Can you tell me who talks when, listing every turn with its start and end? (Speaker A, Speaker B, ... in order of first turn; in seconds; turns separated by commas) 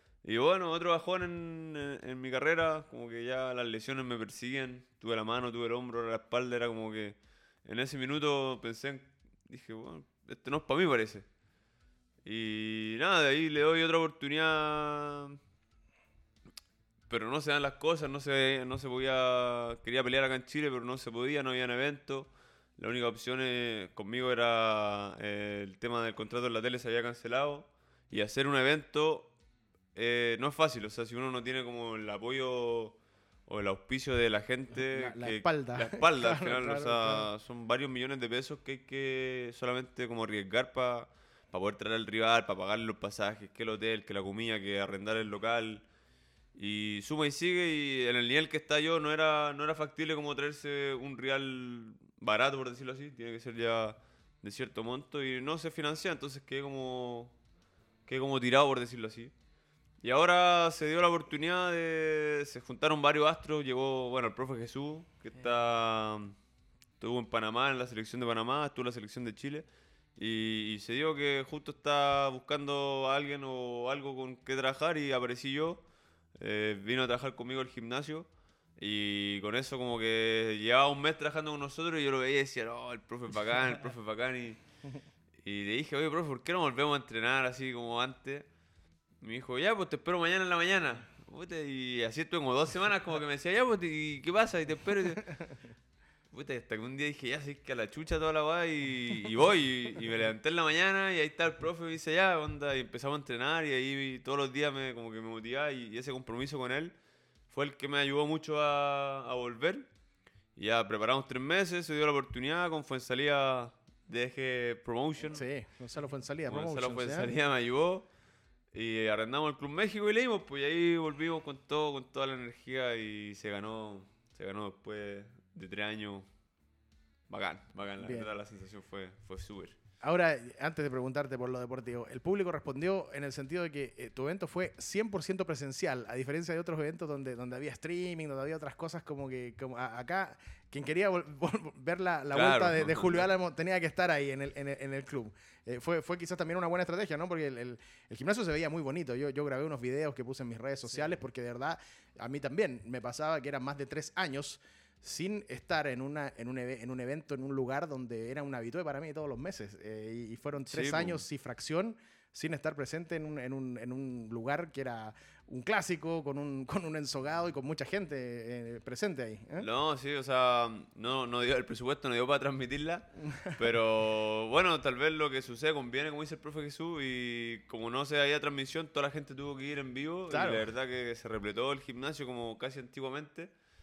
Speaker A: 0.2-11.3, Speaker A: 12.2-15.4, Speaker A: 17.1-29.3, Speaker A: 29.9-45.9, Speaker B: 34.7-37.3, Speaker A: 46.5-57.4, Speaker A: 58.1-59.3, Speaker A: 60.0-66.4, Speaker A: 67.0-69.7, Speaker A: 70.2-75.8, Speaker A: 76.3-84.6, Speaker A: 85.4-88.5, Speaker A: 89.2-95.5, Speaker A: 96.3-106.9, Speaker A: 107.5-109.9, Speaker A: 110.6-115.5, Speaker B: 115.3-117.3, Speaker A: 116.5-118.1, Speaker A: 118.7-126.3, Speaker A: 127.3-129.8, Speaker B: 128.0-128.3, Speaker B: 130.0-169.7, Speaker A: 142.3-143.2, Speaker A: 160.7-161.2, Speaker A: 169.6-183.5, Speaker B: 180.3-180.7